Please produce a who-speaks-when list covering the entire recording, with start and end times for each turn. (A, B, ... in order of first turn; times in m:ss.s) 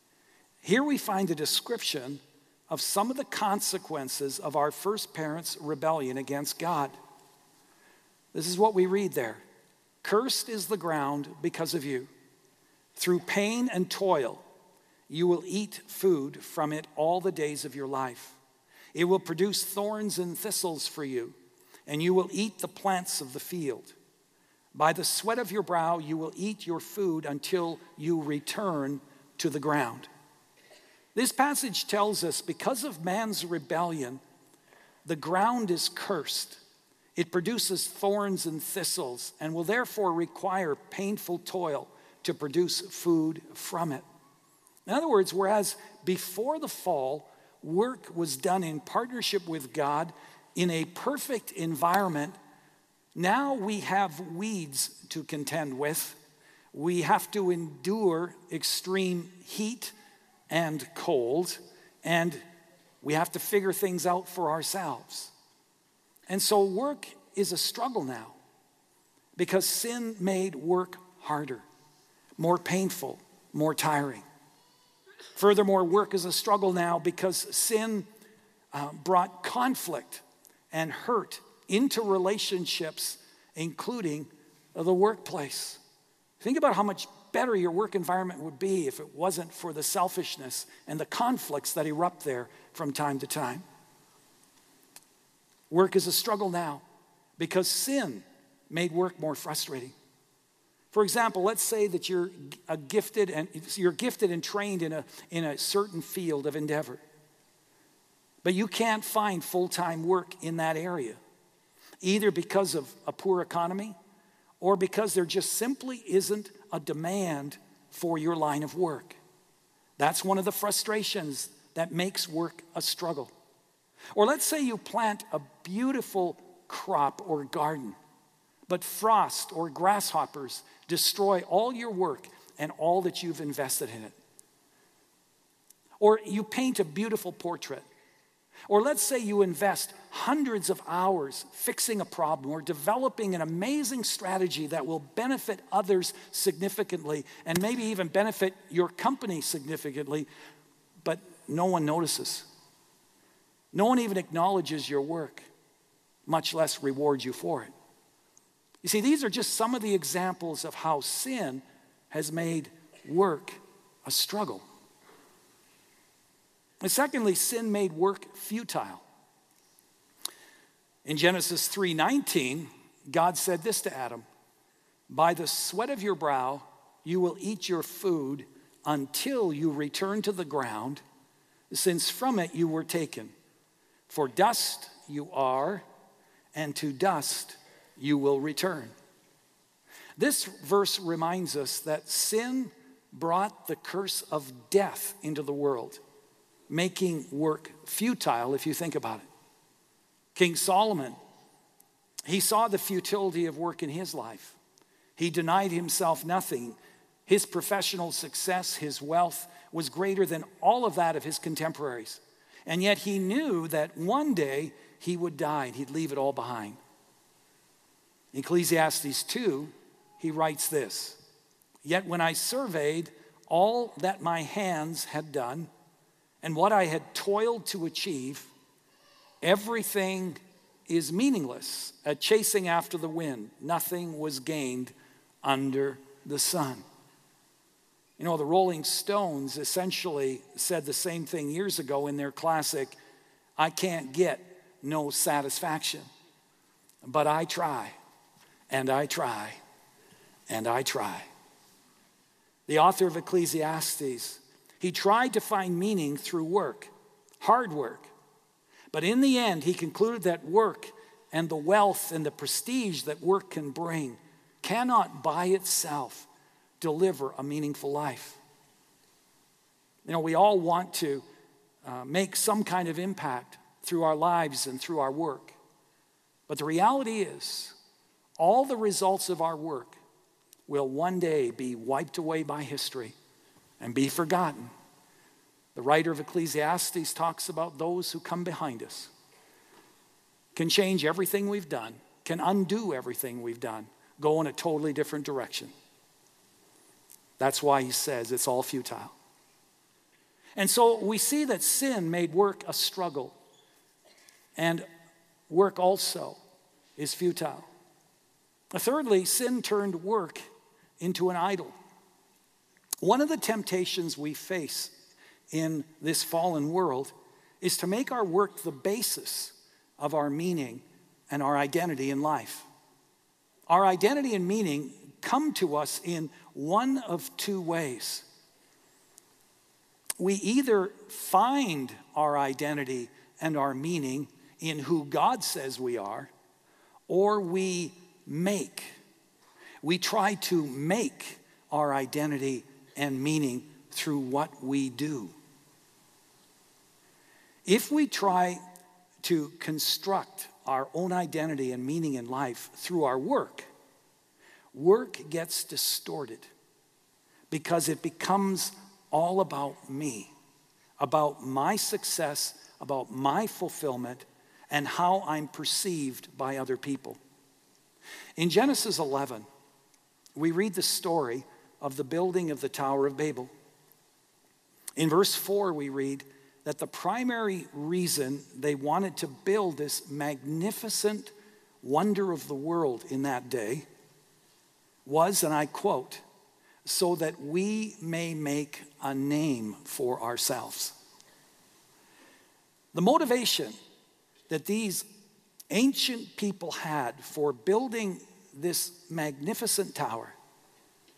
0:00.6-0:07.0 A
0:08.3-0:09.4 A
0:10.0-0:12.1 A
0:13.0-0:14.4 A
0:15.1-0:18.4 A
0:18.9-0:24.0 A
0:24.7-0:30.1 A
0:31.1-0:34.2 A
0:35.0-0:36.6 A
0:37.2-0:44.1 A
0:44.9-0:52.4 A
0:53.2-0:56.2 A
0:56.7-0:59.9 A
1:00.5-1:02.4 A
1:03.0-1:05.3 A
1:06.3-1:08.4 A
1:09.4-1:11.7 A
1:12.4-1:14.2 A
1:15.4-1:18.1 A
1:18.7-1:25.8 A
1:26.4-1:33.7 A
1:35.7-1:36.8 A
1:37.4-1:40.0 A
1:40.9-1:47.0 A
1:48.4-1:51.2 A
1:52.0-1:54.0 A
1:54.6-1:59.2 A
2:00.0-2:03.3 A
2:04.1-2:08.0 A
2:08.7-2:14.2 A
2:16.0-2:17.9 A
2:18.7-2:30.3 A
2:31.0-2:32.5 A
2:33.7-2:35.5 A
2:36.3-2:37.7 A
2:38.8-2:44.6 A
2:46.8-2:49.0 A
2:51.0-2:54.2 A
2:55.1-3:01.0 A
3:01.7-3:03.3 A
3:04.1-3:05.8 A
3:06.5-3:08.9 A
3:10.2-3:16.0 A
3:16.7-3:19.3 A
3:20.4-3:21.2 A
3:22.2-3:24.6 A
3:25.2-3:36.8 A
3:38.3-3:41.2 A
3:41.8-3:45.7 A
3:46.4-3:48.5 A
3:49.4-3:56.8 A
3:58.2-4:03.0 A
4:03.6-4:06.1 A
4:07.0-4:08.0 A
4:08.7-4:09.6 A
4:10.5-4:11.3 A
4:12.7-4:18.1 A
4:18.9-4:26.3 A
4:26.8-4:28.4 A
4:30.0-4:31.3 A
4:31.8-4:35.6 A
4:36.5-4:37.8 A
4:38.4-4:40.0 A
4:40.7-4:43.2 A
4:43.8-4:44.7 A
4:45.8-4:49.1 A
4:50.6-4:55.7 A
4:57.4-4:59.2 A
5:00.6-5:03.4 A
5:04.6-5:04.9 A
5:05.5-5:06.4 A
5:07.0-5:07.7 A
5:08.7-5:10.4 A
5:11.0-5:11.8 A
5:13.0-5:14.9 A
5:15.5-5:22.7 A
5:23.7-5:28.3 A
5:30.2-5:36.3 A
5:37.1-5:39.0 A
5:39.8-5:45.3 A
5:47.6-5:48.6 A
5:49.2-5:53.7 A
5:54.7-5:56.5 A
5:57.5-6:00.3 A
6:01.0-6:07.2 A
6:08.4-6:09.5 A
6:10.4-6:13.5 A
6:15.0-6:23.9 A
6:25.0-6:26.2 A
6:26.8-6:31.0 A
6:32.9-6:33.8 A
6:34.5-6:35.1 A
6:35.7-6:40.4 A